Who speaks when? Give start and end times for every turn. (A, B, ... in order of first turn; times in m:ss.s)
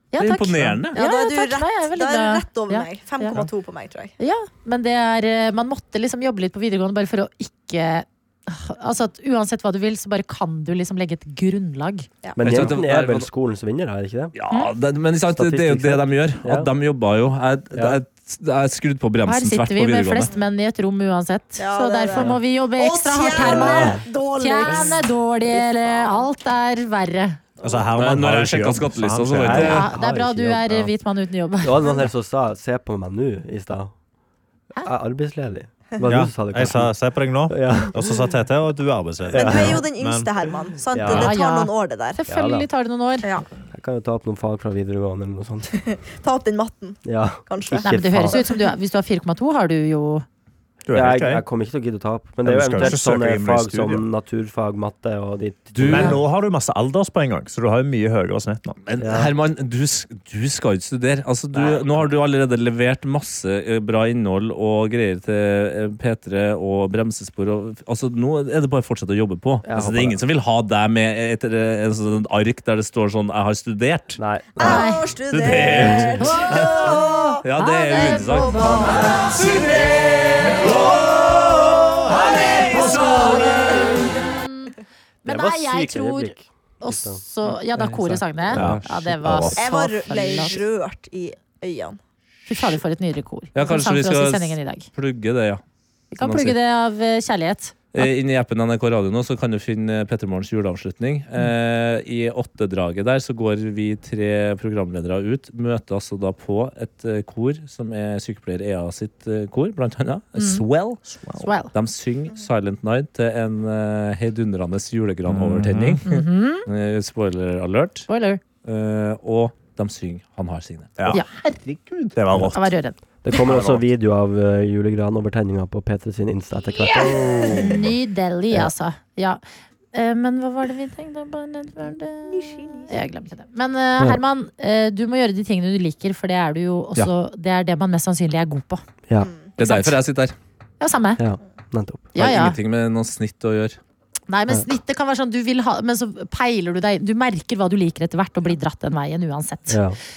0:00.1-0:03.4 A
0:00.2-0:01.0 B
0:00.9-0:04.1 C
0:04.2-0:12.1 A
0:12.2-0:12.7 C
0:12.4-0:14.3 D
0:12.4-0:13.3 B
0:14.3-0:20.3 B
0:15.3-0:16.7 D
0:17.7-0:18.0 D
0:19.2-0:27.4 A
0:21.6-0:26.3 C
0:27.6-0:29.8 E
0:27.9-0:29.9 B
0:29.4-0:30.9 D
0:29.5-0:31.9 A
0:31.6-0:33.9 D
0:34.8-0:37.0 D
0:36.0-0:40.3 E
0:37.5-0:38.3 D
0:39.3-0:39.8 D
0:39.3-0:42.2 C
0:40.9-0:41.3 D
0:41.1-0:43.3 A
0:42.3-0:42.7 D
0:43.7-0:45.8 D
0:45.8-0:48.6 C
0:47.0-0:48.4 D
0:47.8-0:50.2 A
0:50.9-0:51.4 E
0:50.9-0:56.2 D
0:52.4-0:54.0 E
0:55.7-0:56.2 B
0:55.8-0:58.8 E
0:58.8-1:14.2 B
0:59.0-0:59.3 D
1:09.6-1:10.2 D
1:14.2-1:14.9 D
1:14.6-1:17.4 C
1:14.6-1:15.0 A
1:15.3-1:24.0 B
1:15.5-1:16.0 D
1:16.2-1:19.5 A
1:18.2-1:19.6 C
1:20.5-1:21.1 C
1:22.6-1:23.4 C
1:22.7-1:30.6 A
1:25.2-1:27.2 D
1:27.5-1:29.6 B
1:28.5-1:28.8 D
1:28.5-1:29.6 E
1:29.6-1:32.0 C
1:32.5-1:34.9 A
1:33.5-1:35.6 B
1:36.1-1:38.1 A
1:36.2-1:36.6 B
1:37.9-1:51.0 B
1:50.4-1:50.6 A
1:51.1-1:51.5 E
1:51.4-1:51.7 A
1:51.7-1:58.1 B
1:55.3-1:56.0 E
1:56.0-1:56.6 A
1:58.1-1:58.4 A
1:58.6-2:02.1 B
2:01.1-2:01.6 A
2:02.1-2:02.7 E
2:02.4-2:03.0 A
2:03.2-2:07.7 D
2:03.3-2:03.8 E
2:06.8-2:09.4 A
2:07.4-2:07.7 C
2:09.9-2:18.8 A
2:12.3-2:12.9 C
2:19.6-2:20.3 B
2:19.6-2:20.0 A
2:20.8-2:21.2 A
2:21.2-2:22.1 D
2:22.1-2:22.6 A
2:22.2-2:23.8 B
2:24.3-2:29.8 A
2:29.7-2:30.0 D